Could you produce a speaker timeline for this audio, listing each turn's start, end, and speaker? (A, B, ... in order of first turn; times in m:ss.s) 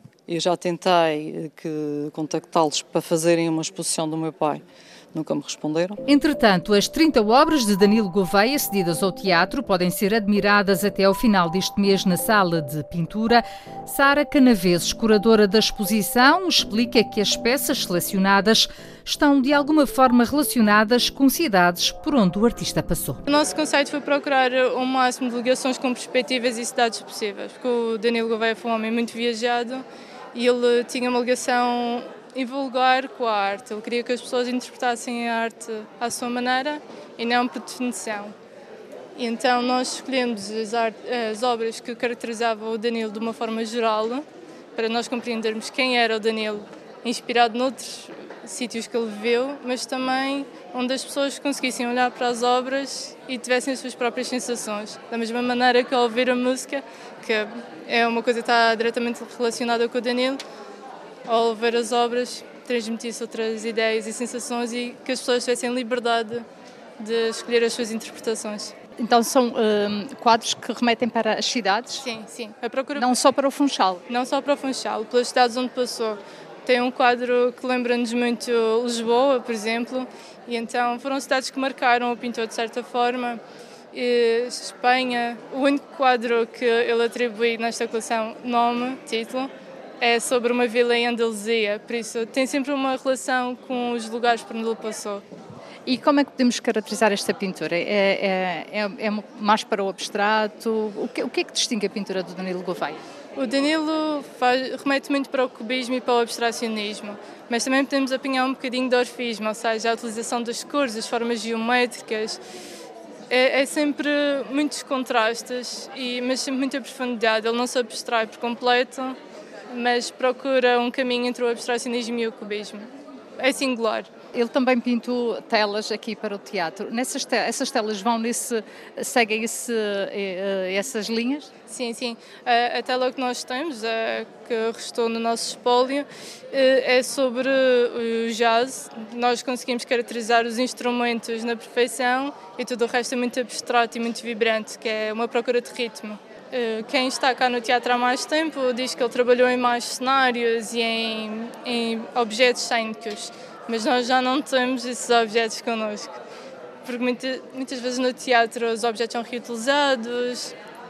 0:00.3-0:06.0 A
0:06.1-0:23.2 B
0:23.3-0:38.4 C
0:39.2-1:00.4 C
1:01.3-1:06.5 C
1:07.0-1:08.8 C
1:09.0-1:12.1 D
1:12.0-1:13.1 C
1:13.0-1:14.0 D
1:14.1-1:23.4 C
1:23.9-1:35.2 C
1:35.9-1:43.0 D
1:43.4-1:52.4 C
1:53.3-1:59.2 C
1:59.7-2:02.9 C
2:03.4-2:04.1 C
2:04.3-2:11.5 D
2:11.7-2:36.2 C
2:36.8-2:40.6 C